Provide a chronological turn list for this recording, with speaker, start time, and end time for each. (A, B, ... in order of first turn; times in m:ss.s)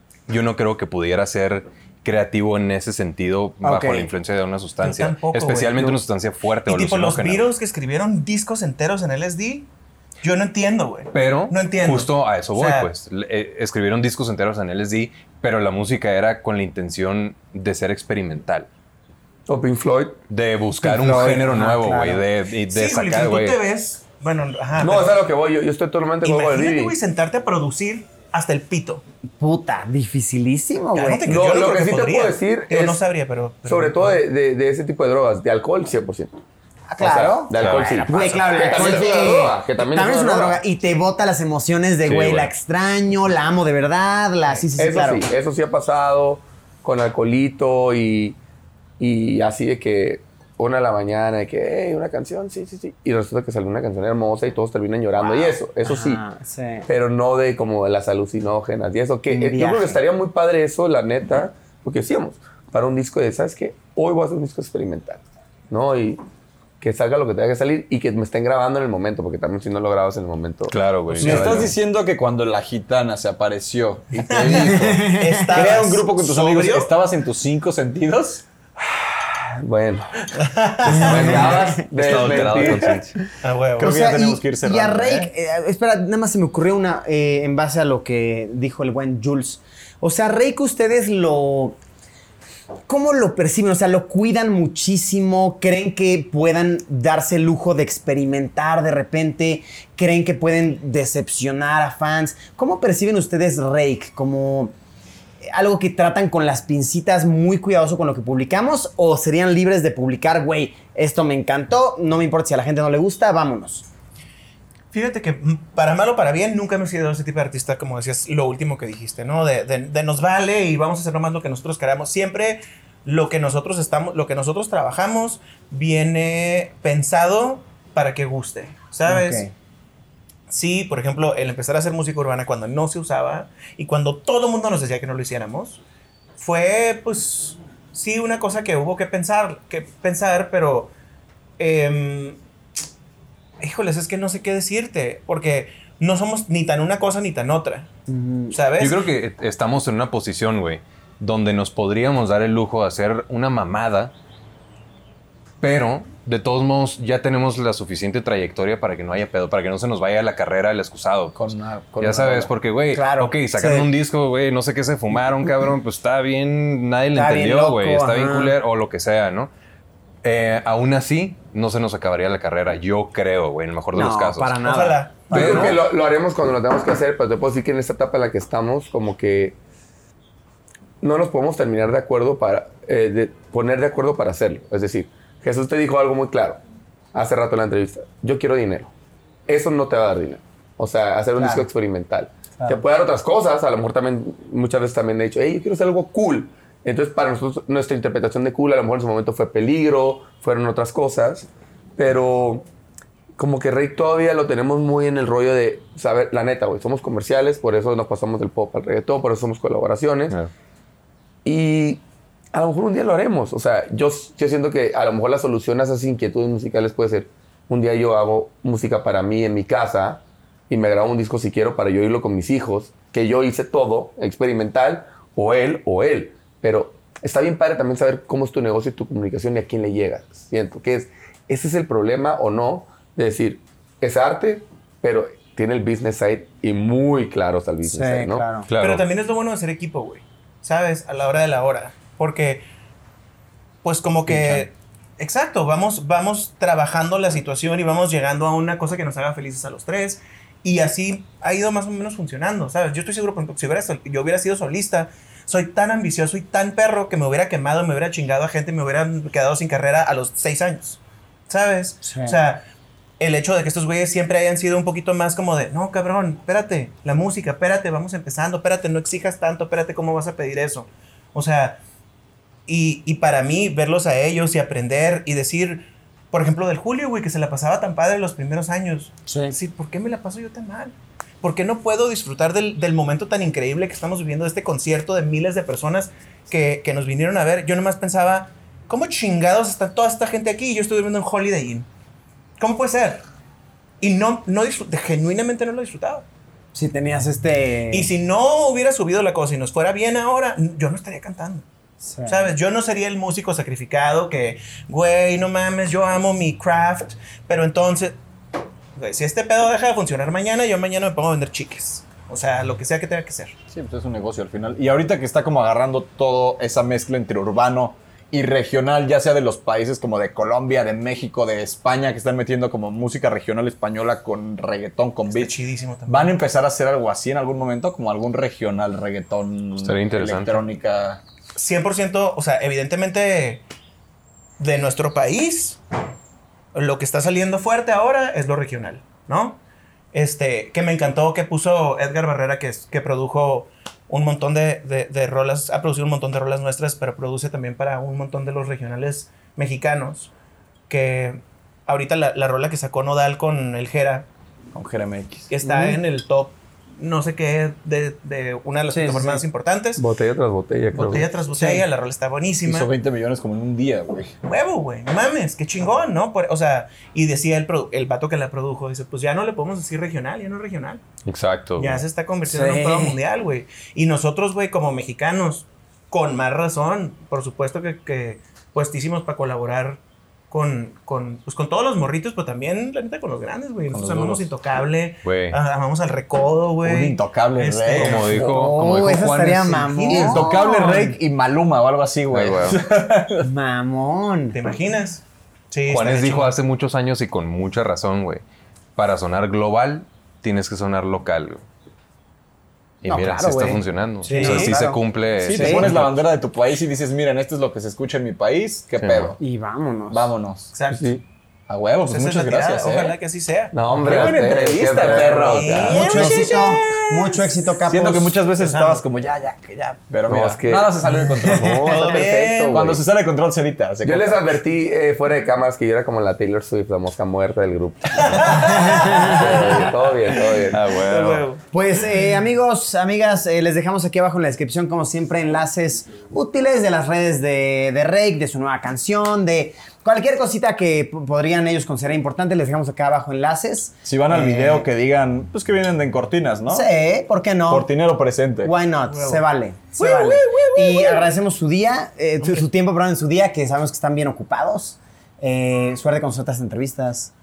0:00.3-0:07.5 A
0:03.6-0:04.1 B
0:04.8-0:06.0 C
0:06.7-0:09.7 C
0:10.2-0:12.9 C
0:11.1-0:18.7 A
0:19.5-0:20.2 D
0:20.3-0:23.6 A
0:20.8-0:22.2 B
0:22.7-0:25.2 C
0:24.8-0:27.0 D
0:26.2-0:29.0 C
0:29.4-0:31.4 B
0:31.0-0:34.2 C
0:31.3-0:33.0 D
0:33.7-0:36.4 D
0:36.9-0:45.2 B
0:37.0-0:40.6 D
0:37.3-0:38.1 A
0:42.0-0:42.5 A
0:44.8-0:48.4 D
0:49.0-0:56.2 D
0:55.2-0:56.9 B
0:56.9-1:06.2 D
0:59.3-1:00.0 B
1:06.8-1:11.6 D
1:10.7-1:11.7 A
1:11.2-1:18.4 E
1:14.3-1:16.9 C
1:14.5-1:15.8 B
1:19.3-1:20.3 D
1:20.4-1:21.5 C
1:20.8-1:23.0 D
1:20.9-1:23.2 A
1:21.1-1:21.8 B
1:22.4-1:23.0 E
1:23.4-1:24.0 C
1:23.8-1:25.3 E
1:23.8-1:31.8 B
1:32.9-1:44.7 B
1:45.5-1:53.9 B
1:54.9-2:09.5 C
2:09.1-2:09.5 B
2:10.5-2:15.8 C
2:16.4-2:20.9 C
2:21.6-2:22.4 C
2:23.6-2:27.9 C
2:28.1-2:28.6 B
2:28.5-2:29.0 C
2:28.8-2:34.1 A
2:35.6-2:41.4 A
2:41.4-2:42.5 E
2:42.0-2:49.5 A
2:42.9-2:43.9 B
2:47.1-2:48.6 B
2:50.2-2:54.7 A
2:53.9-2:55.8 B
2:54.6-2:55.7 C
2:55.3-2:59.6 D
3:01.0-3:06.6 D
3:07.1-3:08.9 D
3:09.5-3:22.7 D
3:11.4-3:11.7 B
3:23.4-3:30.4 D
3:31.4-3:32.0 D
3:32.5-3:58.5 D
3:57.9-3:58.7 B
3:58.7-3:59.1 A
3:58.8-4:02.7 C
4:03.8-4:22.6 C
4:04.3-4:04.7 E
4:22.0-4:22.4 B
4:23.2-4:31.8 C
4:32.7-4:51.9 C
4:39.3-4:39.6 B
4:52.6-4:53.2 C
4:54.0-4:56.3 C
4:56.7-4:58.1 B
4:57.9-5:01.6 C
5:02.0-5:02.6 B
5:02.3-5:08.2 C
5:09.0-5:13.6 C
5:13.7-5:25.6 E
5:25.3-5:26.4 C
5:26.1-5:31.2 E
5:29.8-5:30.6 A
5:31.6-5:33.6 C
5:34.6-5:35.8 C
5:36.7-5:39.6 C
5:40.1-5:50.3 C
5:50.9-5:54.3 C
5:54.7-5:55.5 E
5:55.5-6:00.0 C
5:55.6-5:56.0 B
5:58.9-5:59.4 B
6:00.0-6:01.3 D
6:01.0-6:01.9 E
6:01.0-6:02.9 C
6:02.6-6:04.4 E
6:04.4-6:11.0 C
6:11.3-6:12.0 A
6:11.8-6:28.5 C
6:12.4-6:13.2 B
6:23.9-6:24.5 E
6:25.2-6:25.6 A
6:26.8-6:28.5 E
6:28.0-6:30.2 A
6:28.4-6:31.2 B
6:30.1-6:30.4 C
6:30.1-6:33.5 E
6:32.3-6:32.8 A
6:33.4-6:34.6 B
6:34.5-6:36.5 C
6:35.9-6:38.4 A
6:39.0-6:41.6 A
6:43.0-6:46.2 A
6:43.0-6:45.0 B
6:44.3-6:44.8 C
6:45.4-6:49.4 E
6:45.5-6:45.9 B
6:49.0-6:49.3 A
6:49.4-6:50.3 B
6:50.1-6:50.7 E
6:50.7-6:51.1 C
6:50.9-6:51.2 D
6:51.7-6:53.2 E
6:52.1-6:53.8 C
6:53.7-6:56.2 D
6:54.0-6:57.3 E
6:55.0-6:57.2 C
6:55.7-6:58.4 B
6:57.8-7:04.6 E
6:58.6-6:59.0 C
7:00.3-7:03.0 D
7:01.2-7:02.2 B
7:01.9-7:02.8 C
7:04.0-7:10.8 D
7:08.2-7:09.4 C
7:08.5-7:10.0 B
7:10.7-7:11.5 A
7:10.9-7:11.6 C
7:11.7-7:24.9 B
7:24.0-7:26.9 E
7:26.7-7:27.9 B
7:27.7-7:28.7 E
7:28.6-7:37.3 B
7:29.1-7:29.4 C
7:30.0-7:31.1 C